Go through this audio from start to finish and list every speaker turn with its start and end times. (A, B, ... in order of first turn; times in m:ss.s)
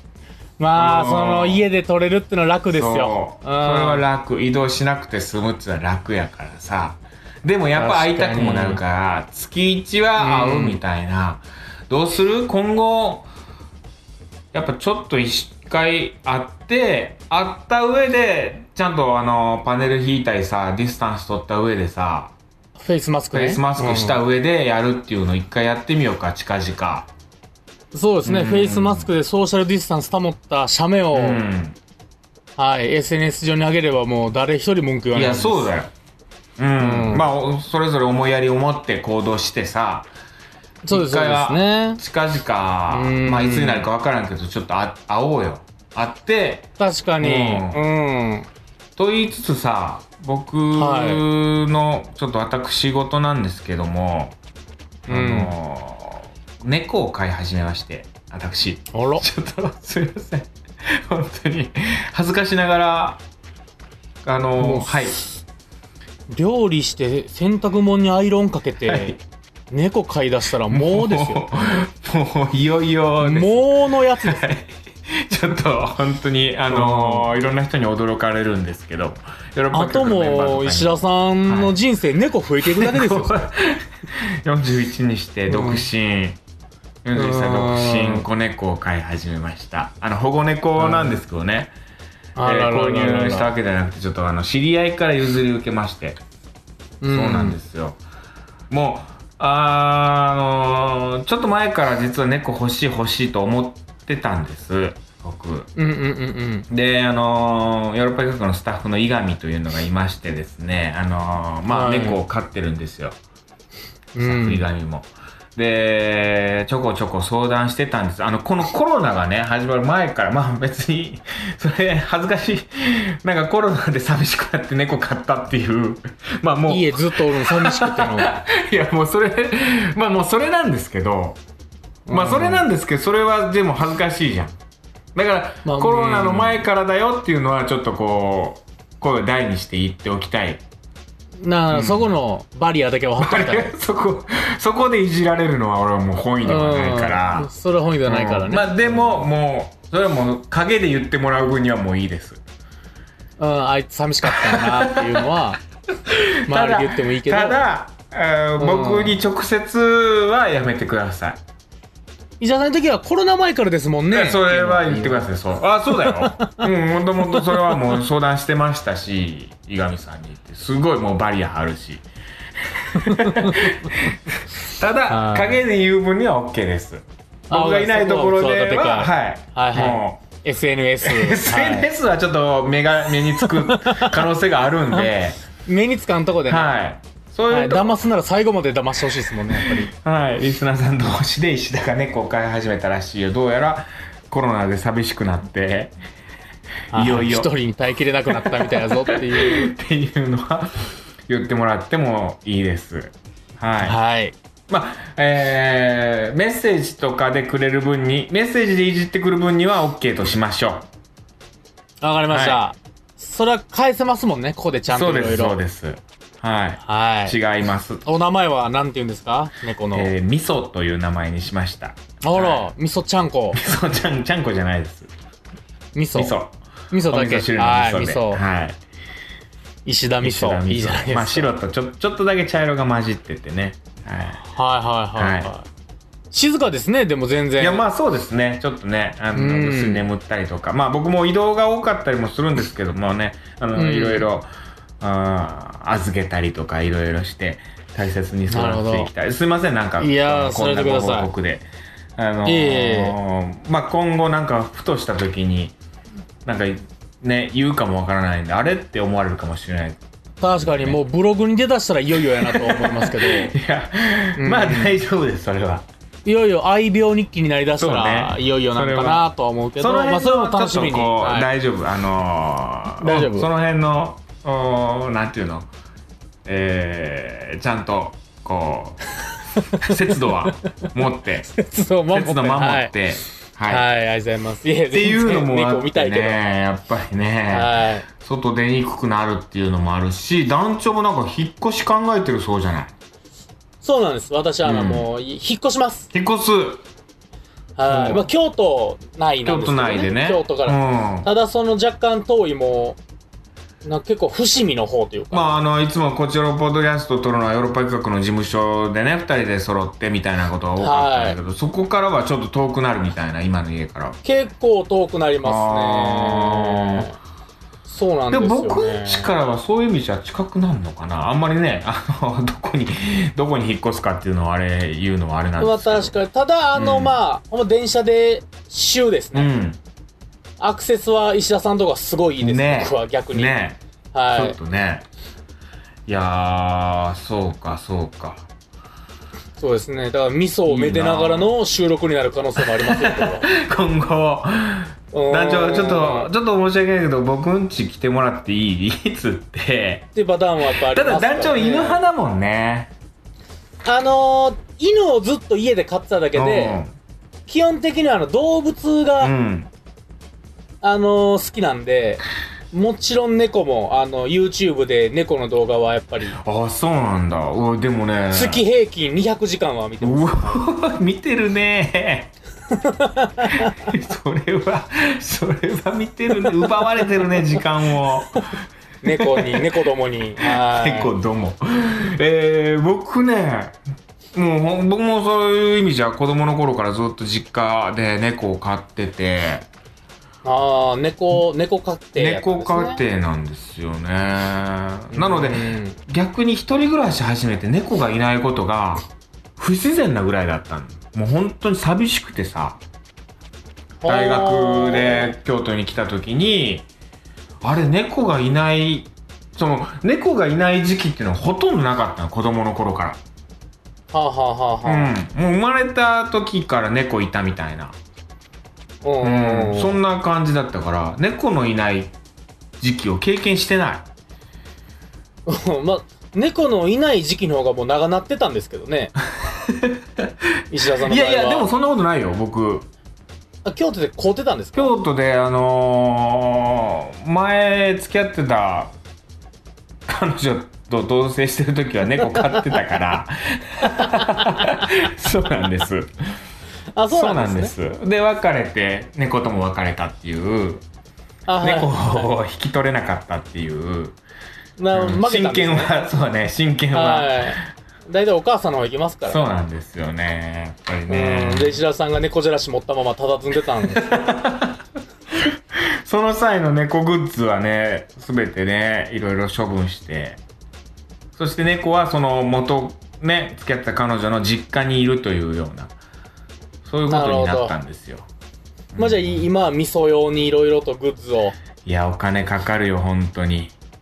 0:00.6-0:04.0 A
0:00.8-0:01.6 B
0:02.7-0:13.3 B
0:07.7-0:08.8 A
0:10.2-0:10.8 A
0:14.5-0:22.3 B
0:22.8-0:24.2 A
0:23.3-0:27.1 B
0:27.9-0:31.4 A
0:28.2-0:29.1 B
0:31.1-0:31.8 B
0:32.6-0:35.7 A
0:35.1-0:35.9 B
0:36.6-0:40.1 B
0:36.8-0:37.2 A
0:40.8-0:42.0 A
0:40.9-0:46.7 B
0:42.9-0:43.9 A
0:46.8-0:48.5 A
0:47.2-0:47.8 B
0:49.0-0:54.4 B
0:50.7-0:51.2 A
0:55.0-1:03.2 B
0:55.1-0:55.5 A
0:58.9-0:59.2 A
1:04.2-1:05.2 B
1:04.6-1:05.2 A
1:06.3-1:09.1 A
1:08.8-1:09.2 B
1:09.7-1:11.4 A
1:10.7-1:21.7 B
1:13.2-1:14.5 A
1:16.7-1:17.3 A
1:19.7-1:23.5 A
1:22.6-1:26.4 B
1:25.5-1:25.9 A
1:27.0-1:31.7 B
1:27.1-1:28.2 A
1:30.8-1:31.2 A
1:32.4-1:33.5 A
1:32.4-1:36.2 B
1:37.0-1:37.6 A
1:37.1-1:38.0 B
1:38.7-1:45.7 B
1:45.8-1:46.7 A
1:46.7-1:53.2 B
1:51.7-1:52.2 A
1:54.1-1:54.6 A
1:54.2-2:11.4 B
2:06.7-2:08.4 A
2:12.1-2:12.6 A
2:12.1-2:14.5 B
2:15.1-2:20.6 B
2:15.6-2:16.6 A
2:21.4-2:23.7 A
2:21.7-2:22.0 B
2:23.2-2:27.5 B
2:26.4-2:29.3 A
2:28.0-2:32.4 B
2:33.4-2:35.6 A
2:34.3-2:35.2 B
2:36.1-2:41.4 B
2:36.5-2:37.6 A
2:38.6-2:39.2 A
2:42.4-2:45.3 A
2:44.1-2:52.0 B
2:45.9-2:46.7 A
2:47.3-2:47.8 A
2:52.7-3:00.2 B
2:53.0-2:53.8 A
2:55.1-2:55.6 A
2:57.5-3:01.9 A
3:01.0-3:05.4 B
3:03.4-3:04.2 A
3:04.9-3:06.7 A
3:06.5-3:07.9 B
3:07.5-3:09.9 A
3:09.5-3:15.9 B
3:16.9-3:19.7 A
3:16.9-3:17.5 B
3:18.3-3:20.8 B
3:21.3-3:24.0 B
3:23.8-3:24.3 A
3:24.7-3:30.9 B
3:32.0-3:35.6 A
3:32.3-3:32.6 B
3:34.9-3:38.0 B
3:36.8-3:37.4 A
3:38.0-3:40.1 A
3:39.9-3:42.7 B
3:42.2-3:43.6 A
3:43.5-3:45.1 B
3:45.9-3:46.3 A
3:46.1-3:48.8 B
3:46.9-3:48.4 A
3:49.8-3:51.5 A
3:50.2-3:54.4 B
3:54.4-3:55.7 A
3:55.2-3:55.5 B
3:56.3-3:57.8 A
3:57.6-4:04.5 B
3:59.3-4:00.0 A
4:03.7-4:04.3 A
4:05.0-4:15.7 B
4:08.5-4:09.1 A
4:10.0-4:11.3 A
4:12.4-4:13.2 A
4:16.4-4:20.0 B
4:20.4-4:23.5 A
4:20.5-4:21.0 B
4:22.4-4:25.8 B
4:24.4-4:25.0 A
4:26.2-4:31.5 A
4:27.8-4:35.7 B
4:33.0-4:33.5 A
4:36.4-4:39.0 B
4:39.7-4:41.5 B
4:41.5-4:42.9 A
4:42.1-4:43.9 B
4:43.7-4:46.4 A
4:44.9-4:52.9 B
4:47.5-4:48.0 A
4:53.8-4:56.1 A
4:54.6-4:55.0 B
4:56.1-4:56.8 B
4:57.8-5:03.0 A
4:57.9-4:58.3 B
4:59.4-5:01.3 B
5:03.8-5:05.4 A
5:05.3-5:14.2 B
5:10.8-5:11.4 A
5:14.2-5:17.2 A
5:15.4-5:17.1 B
5:17.8-5:19.3 A
5:18.3-5:26.2 B
5:25.6-5:29.5 A
5:26.7-5:27.2 B
5:29.3-5:29.8 B
5:30.6-5:33.5 A
5:32.4-5:33.8 B
5:34.1-5:34.6 A
5:34.3-5:35.0 B
5:36.1-5:38.4 B
5:39.6-5:43.5 A
5:40.7-5:41.5 B
5:42.8-5:50.1 B
5:45.1-5:46.3 A
5:50.1-5:52.0 A
5:50.6-5:52.9 B
5:53.8-5:56.8 A
5:56.3-5:56.9 B
5:57.5-5:59.3 A
5:59.2-5:59.7 B
6:00.8-6:06.4 A
6:06.3-6:08.6 B
6:08.3-6:10.6 A
6:10.0-6:12.3 B
6:12.7-6:13.7 A
6:13.5-6:19.6 B
6:19.0-6:21.1 A
6:20.4-6:23.8 B
6:24.3-6:29.7 B
6:30.4-6:33.0 A
6:32.2-6:39.0 B
6:35.1-6:36.0 A
6:39.6-6:42.8 B
6:44.0-6:45.3 A
6:44.0-6:46.8 B
6:47.6-6:53.2 B
6:54.1-6:55.1 A
6:54.8-6:57.9 B
6:59.0-7:00.0 A
6:59.2-7:02.1 B
7:02.8-7:04.0 B
7:05.4-7:09.1 A
7:09.5-7:10.3 B
7:10.7-7:11.7 A
7:11.0-7:12.9 B
7:13.6-7:14.9 A
7:14.7-7:18.9 B
7:20.1-7:26.1 B
7:22.3-7:22.6 A
7:24.0-7:24.3 A
7:26.9-7:27.7 A
7:27.1-7:30.8 B
7:31.5-7:32.3 A
7:31.6-7:34.2 B
7:34.8-7:35.9 A
7:34.9-7:37.6 B
7:36.9-7:39.5 A
7:39.2-7:41.8 B
7:41.1-7:44.2 A
7:44.0-7:44.8 B
7:45.4-7:50.4 B
7:51.4-7:55.9 B
7:56.8-7:58.3 B
7:57.1-7:57.7 A
7:58.9-7:59.5 B
7:59.0-8:01.6 A
8:01.8-8:03.7 B